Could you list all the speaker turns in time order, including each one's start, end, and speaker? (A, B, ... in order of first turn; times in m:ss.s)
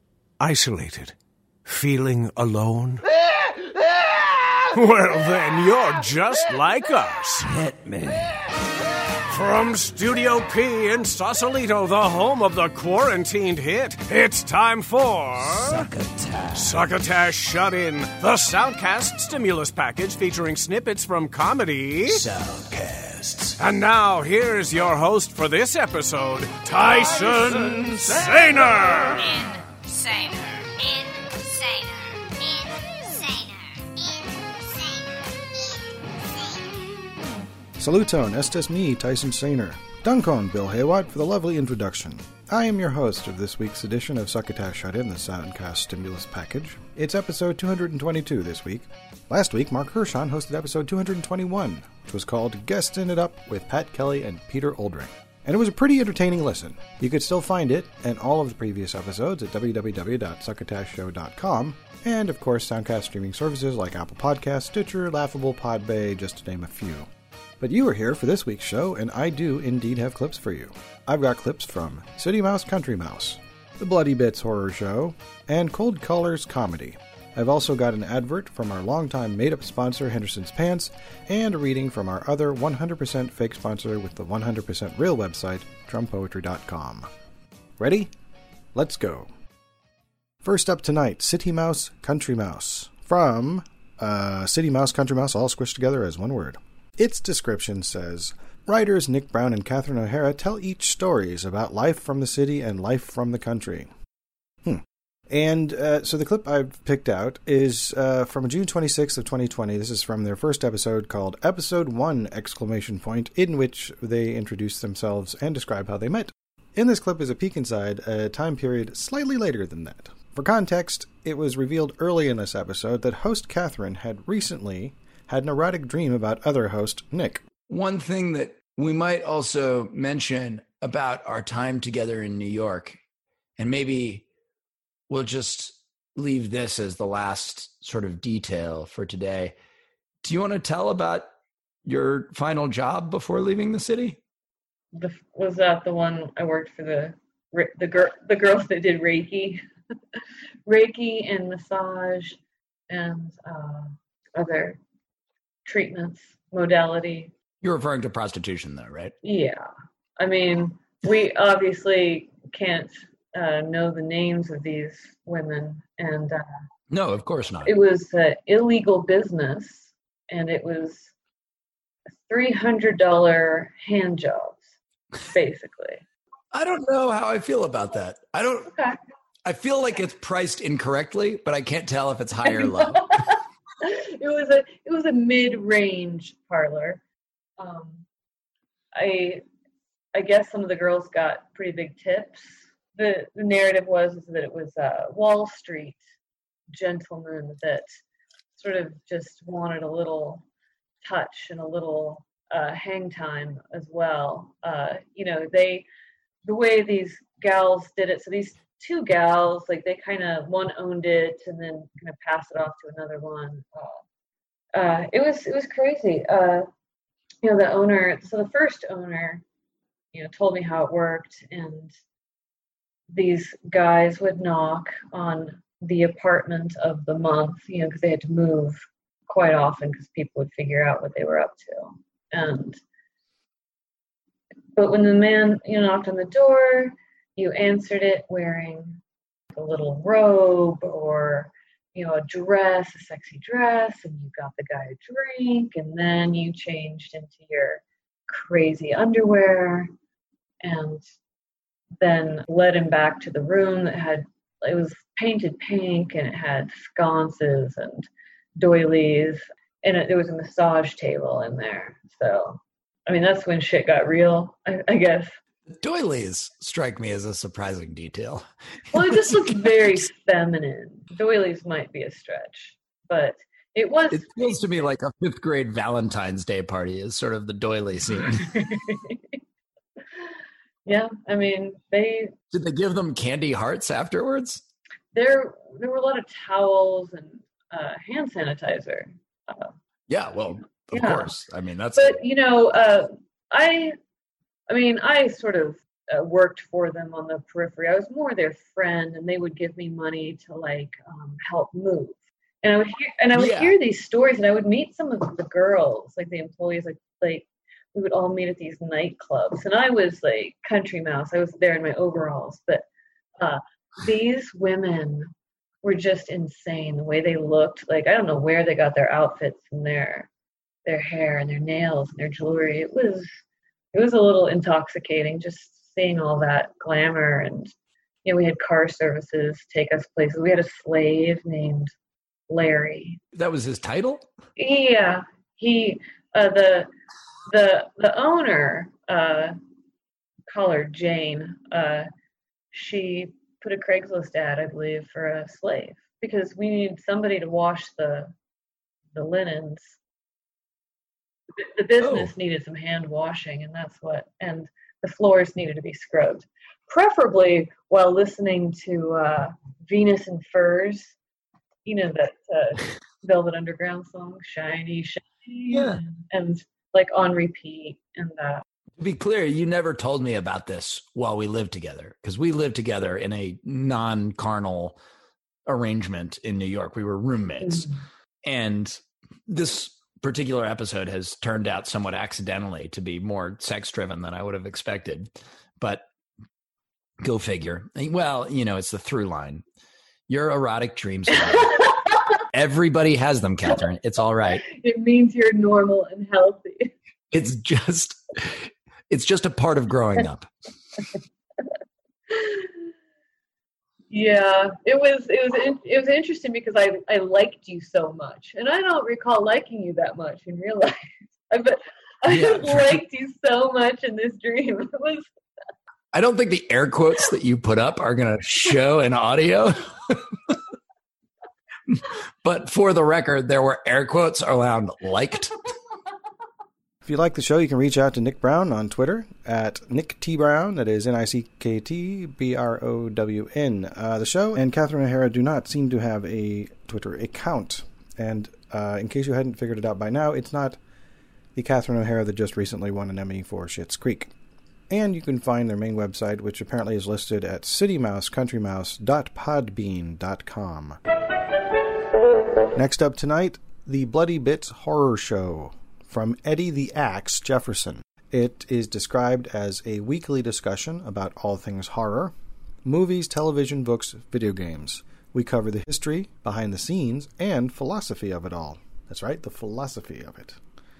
0:00.4-0:03.1 A
0:04.7-0:07.6 A
0:07.6-0:08.3 B
0:09.3-0:15.9 A
0:15.5-0:16.8 B
0:16.6-0:22.2 A
0:22.1-0:23.6 B
0:23.6-0:29.4 A
0:27.7-0:28.4 B
0:29.4-0:34.2 C
0:37.8-1:07.1 D
1:07.6-1:27.1 D
1:27.8-1:28.1 D
1:28.8-1:29.3 D
1:30.4-1:43.9 D
1:44.6-2:07.4 D
2:07.7-2:13.0 B
2:13.6-2:14.2 B
2:15.1-2:19.6 B
2:20.2-2:21.3 B
2:21.8-2:24.2 B
2:25.0-2:29.6 E
2:30.7-2:32.4 E
2:32.9-2:34.8 E
2:35.6-2:37.3 E
2:37.6-2:39.2 B
2:39.2-2:39.7 E
2:40.2-2:46.4 E
2:46.9-2:47.7 B
2:47.6-2:51.1 E
2:52.3-2:54.7 E
2:55.3-2:56.0 E
2:56.5-2:58.7 B
2:58.7-2:59.0 E
2:59.4-3:03.1 B
3:02.5-3:07.0 E
3:07.6-3:08.0 E
3:09.0-3:09.4 E
3:10.1-3:16.0 E
3:16.7-3:17.9 E
3:18.5-3:20.4 E
3:21.0-3:25.9 E
3:26.4-3:34.0 E
3:34.8-3:36.7 E
3:37.4-3:39.4 E
3:40.1-3:41.9 E
3:43.1-3:52.8 E
3:54.8-3:59.0 E
3:59.5-4:09.9 E
4:10.6-4:11.0 E
4:12.0-4:25.3 E
4:25.8-4:29.5 B
4:28.9-4:34.6 E
4:34.1-4:38.7 B
4:38.7-4:39.2 E
4:40.9-4:42.3 E
4:42.5-4:44.6 B
4:45.1-4:49.7 E
4:50.1-4:52.2 B
4:50.8-4:51.4 E
4:52.0-4:54.0 E
4:54.7-5:12.8 E
5:03.3-5:03.8 B
5:13.4-5:15.3 E
5:15.8-5:20.3 E
5:20.8-5:23.3 E
5:23.9-5:27.7 E
5:28.2-5:31.9 E
5:32.5-5:33.2 E
5:33.3-5:34.3 B
5:34.6-5:36.9 E
5:37.5-5:39.6 E
5:40.5-5:42.1 E
5:42.7-5:48.3 E
5:49.2-5:50.0 E
5:51.6-6:01.2 E
5:52.0-5:52.3 B
6:01.8-6:08.6 E
6:05.7-6:06.0 B
6:09.0-6:15.0 B
6:15.7-6:17.9 B
6:17.6-6:17.9 E
6:18.5-6:26.1 B
6:27.2-6:29.6 B
6:30.3-6:31.9 B
6:32.5-6:34.6 B
6:34.7-6:36.9 E
6:37.3-6:40.5 B
6:42.3-6:42.7 E
6:44.1-6:55.3 E
6:52.3-6:53.0 B
6:56.1-7:00.2 B
7:01.9-7:05.5 B
7:07.0-7:20.8 D
7:21.6-7:24.3 D
7:24.9-7:31.0 D
7:32.7-7:42.3 D
7:42.8-7:50.6 D